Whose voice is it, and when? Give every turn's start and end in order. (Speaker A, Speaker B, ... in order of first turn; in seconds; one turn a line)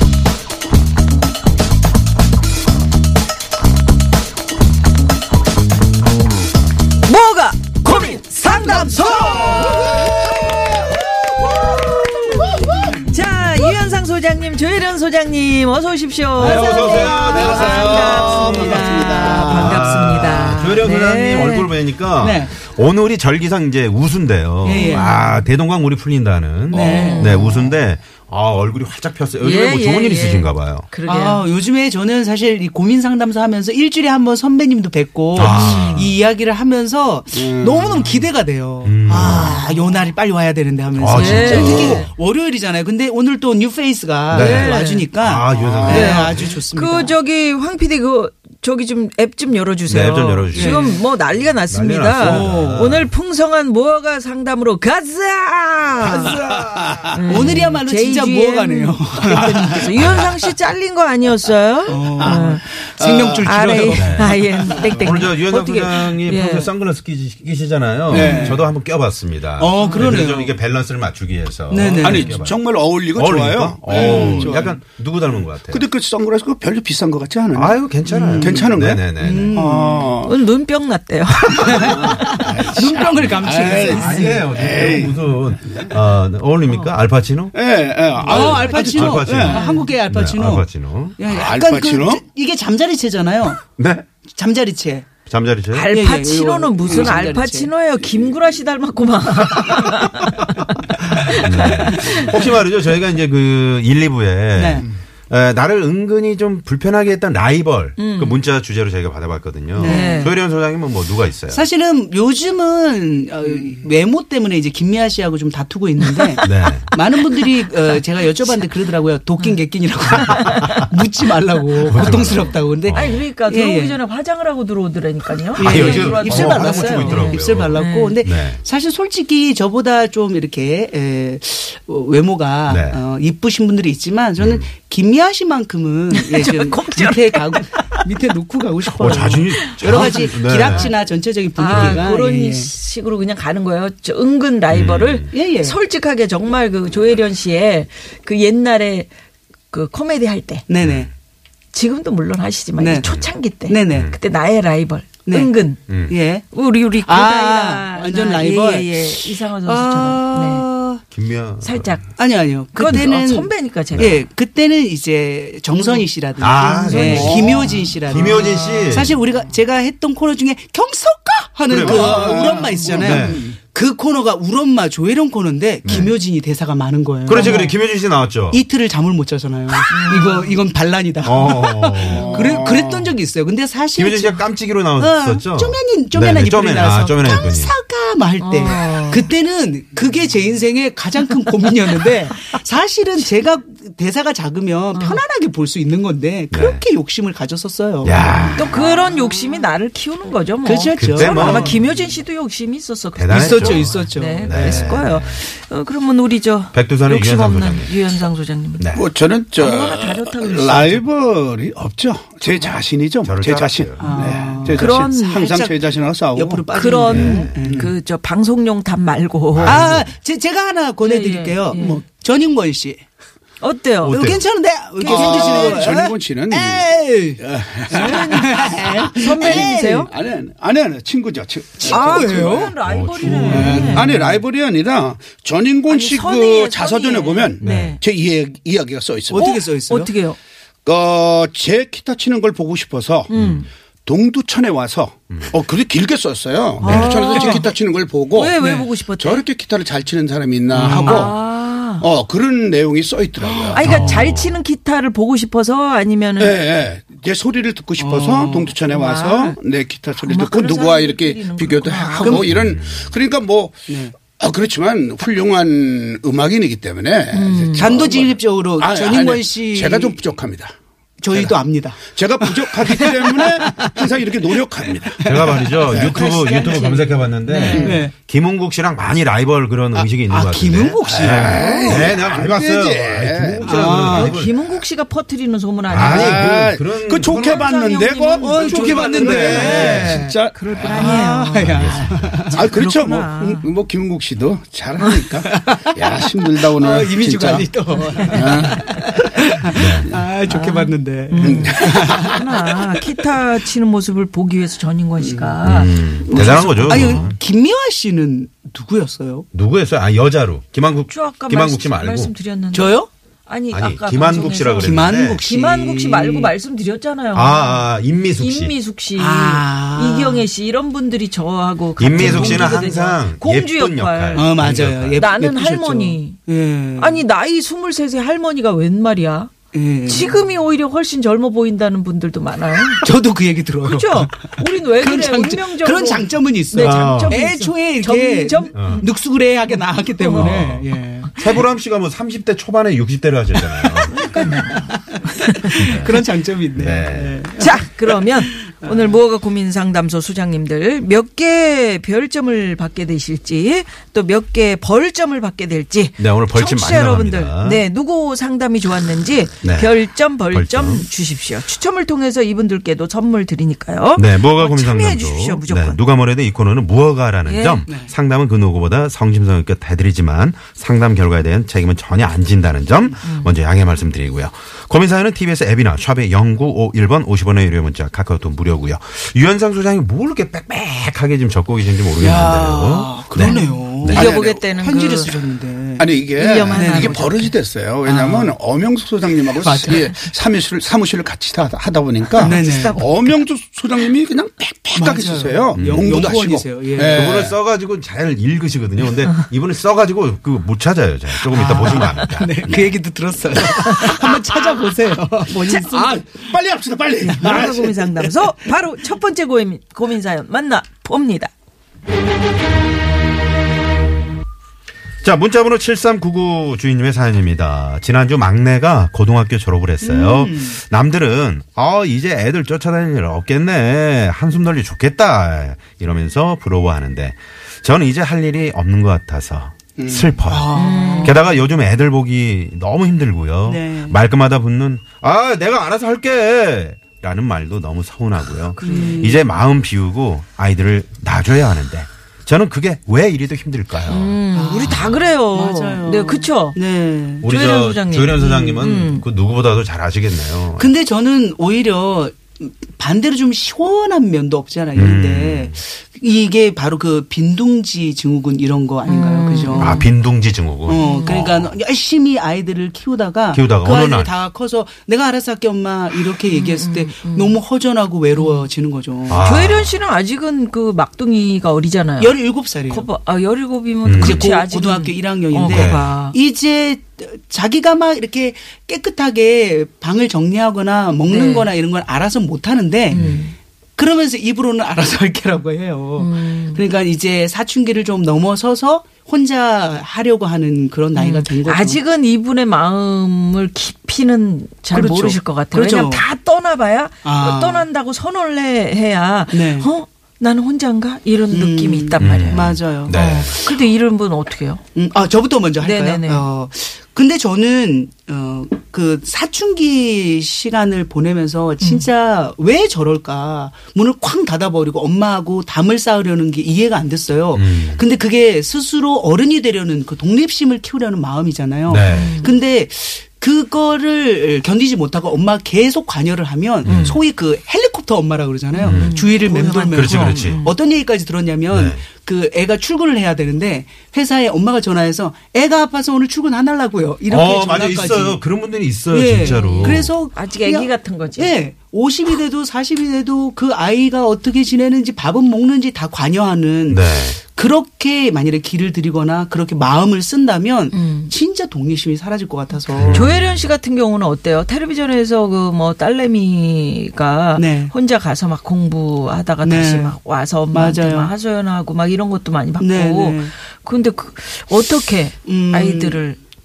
Speaker A: 7.0-10.8
Speaker B: 7.9-13.0
Speaker A: 11.4-21.7
Speaker C: 16.4-18.6
Speaker B: 16.4-19.5
Speaker D: 17.6-19.8
Speaker C: 19.2-30.9
Speaker B: 22.2-22.6
Speaker B: 24.6-25.1
Speaker A: 24.7-25.4
Speaker B: 26.7-27.7
Speaker A: 26.8-27.4
Speaker A: 29.4-31.4
Speaker B: 31.0-47.1
Speaker C: 35.3-36.1
Speaker A: 35.4-36.1
Speaker D: 37.3-38.1
Speaker C: 38.8-39.6
Speaker C: 40.9-42.0
Speaker A: 41.1-42.1
Speaker D: 41.3-42.0
Speaker C: 44.3-46.5
Speaker A: 44.3-45.1
Speaker D: 45.6-46.1
Speaker A: 45.9-56.4
Speaker C: 49.9-51.0
Speaker B: 50.5-51.0
Speaker C: 51.7-53.1
Speaker B: 52.2-52.9
Speaker D: 56.0-57.2
Speaker A: 57.1-62.7
Speaker B: 57.3-59.9
Speaker C: 57.3-57.6
Speaker C: 60.0-60.4
Speaker B: 61.9-65.3
Speaker D: 62.2-62.5
Speaker D: 63.0-63.9
Speaker A: 63.4-66.7
Speaker C: 63.9-75.8
Speaker B: 68.1-68.7
Speaker A: 68.1-68.6
Speaker B: 69.6-70.5
Speaker A: 69.8-70.2
Speaker B: 71.7-72.3
Speaker D: 72.0-74.8
Speaker B: 73.9-74.7
Speaker D: 75.7-77.8
Speaker C: 77.5-79.5
Speaker B: 78.0-80.1
Speaker D: 78.4-80.3
Speaker A: 80.2-82.8
Speaker B: 81.6-84.5
Speaker C: 81.8-83.3
Speaker D: 82.0-82.7
Speaker D: 83.3-85.9
Speaker C: 83.9-87.5
Speaker A: 86.7-86.9
Speaker D: 87.5-89.6
Speaker A: 88.2-90.0
Speaker C: 88.2-91.2
Speaker B: 88.2-93.6
Speaker D: 91.2-92.2
Speaker C: 93.8-94.0
Speaker B: 94.3-95.1
Speaker C: 95.3-95.9
Speaker A: 95.7-102.5
Speaker B: 95.9-97.7
Speaker D: 96.9-97.1
Speaker C: 101.3-111.6
Speaker B: 104.5-104.8
Speaker A: 108.0-108.4
Speaker B: 109.7-110.3
Speaker A: 109.8-110.3
Speaker B: 111.5-124.0
Speaker C: 116.4-116.9
Speaker A: 120.3-120.8
Speaker C: 121.8-123.2
Speaker A: 122.9-128.2
Speaker B: 125.5-142.7
Speaker C: 125.6-128.6
Speaker C: 132.7-133.0
Speaker C: 134.4-134.7
Speaker A: 136.1-138.0
Speaker C: 138.8-140.9
Speaker A: 139.6-140.9
Speaker A: 141.6-149.1
Speaker C: 141.7-142.1
Speaker C: 144.7-145.3
Speaker B: 145.3-145.8
Speaker A: 149.7-150.7
Speaker B: 150.7-151.1
Speaker C: 150.8-151.1
Speaker A: 151.7-155.8
Speaker B: 152.8-154.1
Speaker C: 153.0-153.3
Speaker B: 155.2-155.5
Speaker C: 155.9-156.1
Speaker B: 156.1-161.0
Speaker A: 156.5-160.7
Speaker C: 161.1-162.0
Speaker A: 161.6-162.0
Speaker B: 162.2-177.7
Speaker A: 162.7-164.2
Speaker C: 162.8-163.2
Speaker C: 163.9-164.2
Speaker A: 165.8-167.6
Speaker C: 166.4-169.2
Speaker D: 167.2-167.5
Speaker A: 168.5-168.8
Speaker C: 171.7-173.5
Speaker D: 171.7-173.4
Speaker A: 172.6-172.9
Speaker C: 175.8-176.1
Speaker C: 177.2-178.6
Speaker A: 177.4-177.7
Speaker B: 178.5-199.6
Speaker A: 179.9-180.6
Speaker C: 181.2-183.0
Speaker A: 182.1-182.4
Speaker C: 183.9-187.8
Speaker A: 188.4-189.2
Speaker A: 194.9-195.2
Speaker C: 196.5-196.8
Speaker C: 198.0-198.7
Speaker A: 198.6-208.9
Speaker B: 200.6-201.8
Speaker C: 201.0-201.8
Speaker C: 203.1-205.4
Speaker B: 203.3-204.9
Speaker C: 206.7-207.9
Speaker C: 208.8-209.0
Speaker D: 208.9-216.7
Speaker A: 209.5-211.0
Speaker A: 212.4-212.8
Speaker C: 213.2-214.2
Speaker B: 214.0-217.9
Speaker A: 214.7-215.4
Speaker A: 216.7-220.0
Speaker C: 217.1-217.6
Speaker C: 219.5-220.0
Speaker B: 219.6-223.0
Speaker A: 221.0-222.0
Speaker A: 223.6-224.2
Speaker C: 224.0-224.4
Speaker B: 224.0-230.1
Speaker A: 225.0-225.9
Speaker D: 225.0-239.6
Speaker A: 227.9-230.1
Speaker A: 231.8-234.1
Speaker B: 231.8-232.7
Speaker C: 232.8-234.3
Speaker A: 235.9-238.0
Speaker C: 237.6-238.0
Speaker B: 239.3-240.1
Speaker A: 239.3-240.4
Speaker D: 240.8-243.3
Speaker A: 243.3-243.7
Speaker C: 243.3-243.6
Speaker D: 244.1-251.4
Speaker C: 246.8-247.4
Speaker A: 246.8-247.6
Speaker B: 246.9-247.7
Speaker A: 248.3-249.4
Speaker B: 248.6-248.9
Speaker B: 250.7-251.3
Speaker A: 250.8-252.0
Speaker D: 252.0-253.9
Speaker B: 253.4-253.8
Speaker A: 253.7-256.6
Speaker C: 253.8-254.6
Speaker D: 256.4-270.7
Speaker B: 258.0-258.8
Speaker A: 258.9-259.6
Speaker A: 260.1-262.5
Speaker B: 262.2-262.5
Speaker C: 262.4-263.1
Speaker B: 263.9-264.1
Speaker A: 267.3-267.9
Speaker B: 267.7-270.2
Speaker B: 271.2-277.1
Speaker D: 271.3-276.2
Speaker C: 275.2-284.7
Speaker A: 276.1-278.0
Speaker B: 277.7-278.1
Speaker D: 277.7-278.0
Speaker B: 280.2-281.9
Speaker D: 281.1-284.3
Speaker A: 281.4-282.1
Speaker B: 283.6-284.4
Speaker A: 284.0-286.6
Speaker C: 285.9-287.7
Speaker D: 285.9-291.1
Speaker A: 287.3-290.1
Speaker B: 288.2-292.6
Speaker C: 289.1-290.2
Speaker A: 290.8-293.7
Speaker C: 290.8-292.5
Speaker D: 292.5-298.8
Speaker B: 295.1-302.8
Speaker A: 298.0-299.1
Speaker C: 299.7-300.2
Speaker A: 300.5-307.3
Speaker D: 301.4-302.2
Speaker B: 305.2-305.6
Speaker C: 305.6-307.4
Speaker B: 306.2-309.5
Speaker C: 309.5-312.3
Speaker A: 311.1-324.5
Speaker B: 312.7-313.1
Speaker C: 313.7-315.4
Speaker B: 314.8-316.5
Speaker C: 317.3-318.7
Speaker B: 319.1-320.4
Speaker C: 322.0-325.3
Speaker B: 322.1-322.9
Speaker B: 324.3-327.2
Speaker A: 325.2-326.4
Speaker A: 327.0-329.5
Speaker B: 329.7-330.4
Speaker A: 330.1-333.1
Speaker B: 333.0-341.3
Speaker A: 333.8-339.1
Speaker C: 336.8-337.5
Speaker C: 338.7-339.0
Speaker A: 340.2-340.6
Speaker C: 340.3-344.3
Speaker B: 343.6-345.1
Speaker A: 344.1-346.2
Speaker B: 345.6-347.9
Speaker C: 345.8-346.2
Speaker C: 346.7-347.4
Speaker A: 347.6-366.0
Speaker B: 348.4-349.2
Speaker C: 356.2-357.8
Speaker C: 359.6-361.0
Speaker C: 364.1-384.3
Speaker A: 367.4-367.9
Speaker B: 367.9-368.1
Speaker A: 373.2-373.5
Speaker B: 382.1-386.1
Speaker A: 383.4-385.3
Speaker D: 384.1-384.6
Speaker D: 386.0-397.6
Speaker A: 386.3-387.5
Speaker B: 386.7-387.2
Speaker B: 388.0-388.6
Speaker B: 389.5-390.3
Speaker B: 392.4-393.0
Speaker A: 392.4-393.0
Speaker B: 394.9-397.3
Speaker C: 395.8-396.2
Speaker C: 397.0-402.9
Speaker B: 401.3-406.5
Speaker D: 405.6-408.2
Speaker B: 407.2-407.7
Speaker A: 407.3-411.5
Speaker C: 415.2-445.2
Speaker B: 420.0-420.8
Speaker D: 430.0-430.3
Speaker B: 430.4-431.4
Speaker A: 430.7-431.4
Speaker B: 433.6-434.2
Speaker B: 438.8-439.4
Speaker A: 438.8-439.4
Speaker A: 444.1-446.8
Speaker B: 444.5-447.5
Speaker C: 447.4-450.9
Speaker A: 447.4-449.2
Speaker B: 448.4-448.8
Speaker B: 450.8-460.0
Speaker C: 454.9-455.8
Speaker A: 459.1-460.1
Speaker C: 459.8-461.7
Speaker B: 460.9-469.4
Speaker A: 460.9-461.6
Speaker C: 463.5-464.3
Speaker A: 466.5-467.6
Speaker A: 468.4-468.7
Speaker C: 469.3-470.0
Speaker A: 469.4-476.4
Speaker B: 472.2-473.1
Speaker C: 474.0-474.5
Speaker B: 474.1-483.2
Speaker C: 475.7-476.1
Speaker A: 481.3-481.7
Speaker A: 483.1-483.5
Speaker C: 483.1-483.4
Speaker B: 484.0-492.0
Speaker A: 486.2-486.8
Speaker A: 491.1-504.8
Speaker B: 494.9-496.2
Speaker B: 497.2-497.9
Speaker B: 499.5-499.9
Speaker B: 501.5-503.1
Speaker C: 502.2-503.6
Speaker B: 504.9-538.4
Speaker A: 505.8-506.4
Speaker A: 511.8-512.1
Speaker C: 517.5-518.0
Speaker C: 521.9-522.4
Speaker A: 522.1-522.6
Speaker A: 526.8-527.1
Speaker C: 526.8-527.2
Speaker A: 528.7-530.7
Speaker C: 528.8-529.2
Speaker C: 529.9-530.6
Speaker C: 531.7-532.0
Speaker C: 537.3-540.1
Speaker B: 539.1-553.3
Speaker A: 539.4-541.5
Speaker C: 546.9-547.4
Speaker A: 550.9-551.3
Speaker C: 552.9-553.7
Speaker A: 553.1-566.4
Speaker B: 557.5-557.9
Speaker B: 559.6-560.2
Speaker B: 560.7-561.3
Speaker B: 562.8-563.5
Speaker B: 565.4-566.2